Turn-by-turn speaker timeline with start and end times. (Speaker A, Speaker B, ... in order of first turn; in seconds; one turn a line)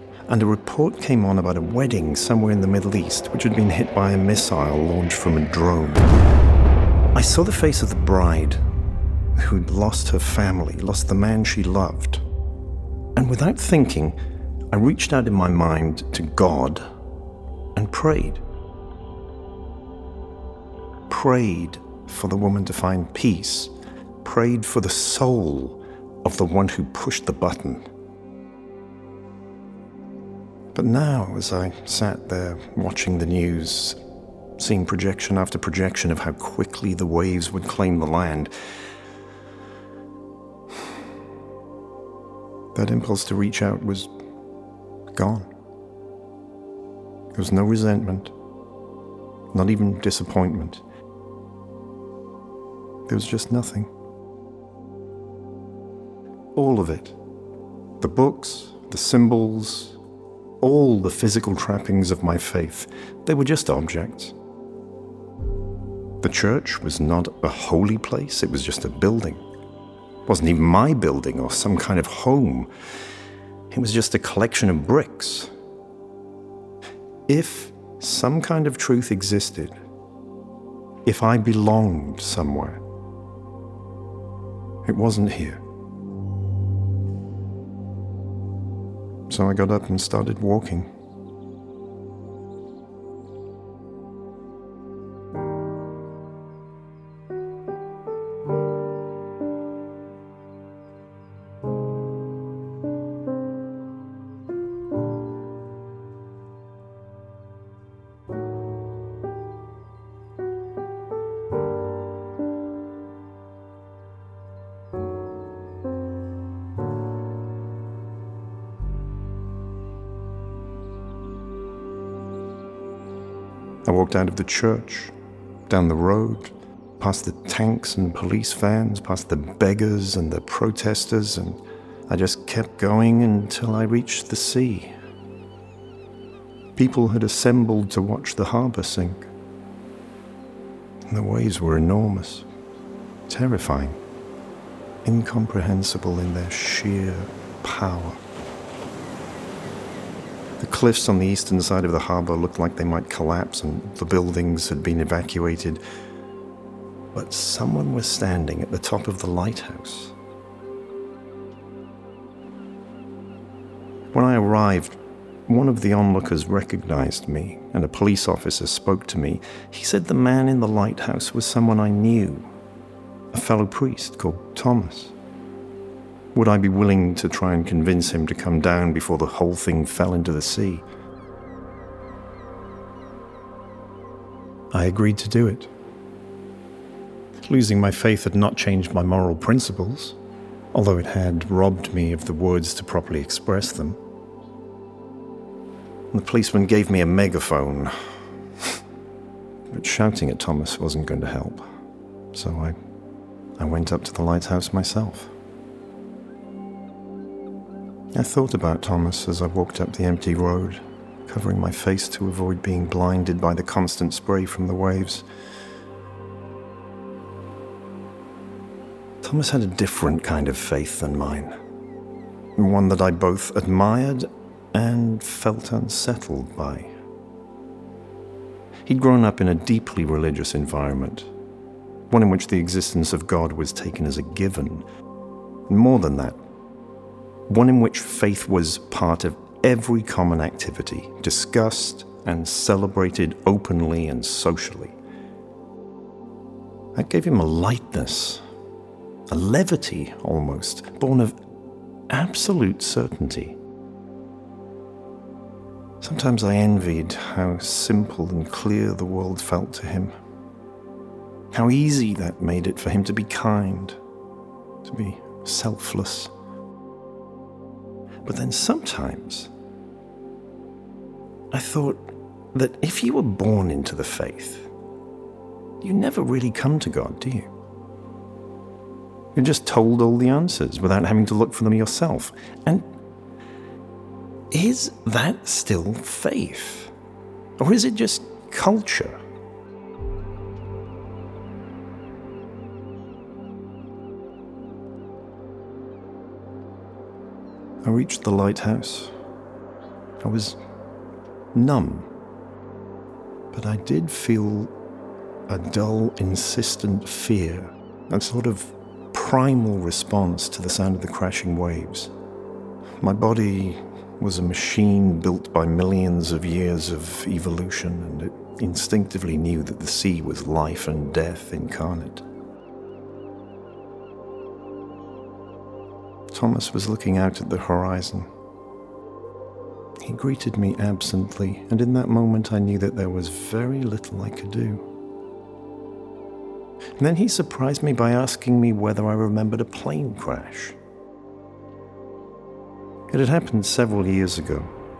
Speaker A: 0.3-6.1
Speaker A: 7.1-8.6
Speaker A: 9.3-12.2
Speaker A: 13.2-14.2
Speaker A: 14.7-16.8
Speaker A: 17.8-18.4
Speaker A: 21.1-27.9
Speaker A: 30.7-34.0
Speaker A: 34.6-38.5
Speaker A: 42.7-44.1
Speaker A: 45.1-45.5
Speaker A: 47.3-48.3
Speaker A: 49.5-50.8
Speaker A: 53.1-53.9
Speaker A: 56.5-57.2
Speaker A: 58.0-60.0
Speaker A: 60.6-64.3
Speaker A: 66.2-69.4
Speaker A: 70.3-72.7
Speaker A: 73.7-75.5
Speaker A: 77.3-79.7
Speaker A: 81.0-82.8
Speaker A: 84.8-85.6
Speaker A: 89.3-90.9
Speaker A: 123.8-125.1
Speaker A: 125.7-134.9
Speaker A: 136.8-139.3
Speaker A: 141.1-142.5
Speaker A: 143.3-144.0
Speaker A: 145.0-148.2
Speaker A: 150.6-155.8
Speaker A: 157.1-160.1
Speaker A: 164.1-172.5
Speaker A: 173.3-175.1
Speaker A: 176.3-180.8
Speaker A: 184.7-185.7
Speaker A: 187.4-190.2
Speaker A: 190.7-194.0
Speaker A: 196.1-197.9
Speaker A: 199.7-201.7
Speaker A: 202.3-202.8
Speaker A: 203.6-205.3
Speaker A: 208.1-215.2
Speaker A: 219.2-221.5
Speaker A: 222.6-226.9
Speaker A: 228.8-231.3
Speaker A: 232.1-234.8
Speaker A: 235.7-236.4
Speaker A: 237.5-244.9
Speaker A: 246.9-248.4
Speaker A: 249.3-251.3
Speaker A: 252.1-253.6
Speaker A: 256.0-260.1
Speaker A: 261.5-264.0
Speaker A: 264.8-266.3
Speaker A: 268.2-269.5
Speaker A: 271.5-274.7
Speaker A: 275.8-277.5
Speaker A: 279.3-282.9
Speaker A: 284.5-286.9
Speaker A: 287.6-289.2
Speaker A: 297.8-299.1
Speaker A: 300.2-300.6
Speaker A: 301.5-302.1
Speaker A: 303.5-304.7
Speaker A: 305.5-312.1
Speaker A: 313.0-322.2
Speaker A: 326.3-328.3
Speaker A: 330.0-334.8
Speaker A: 337.0-340.8
Speaker A: 343.1-344.7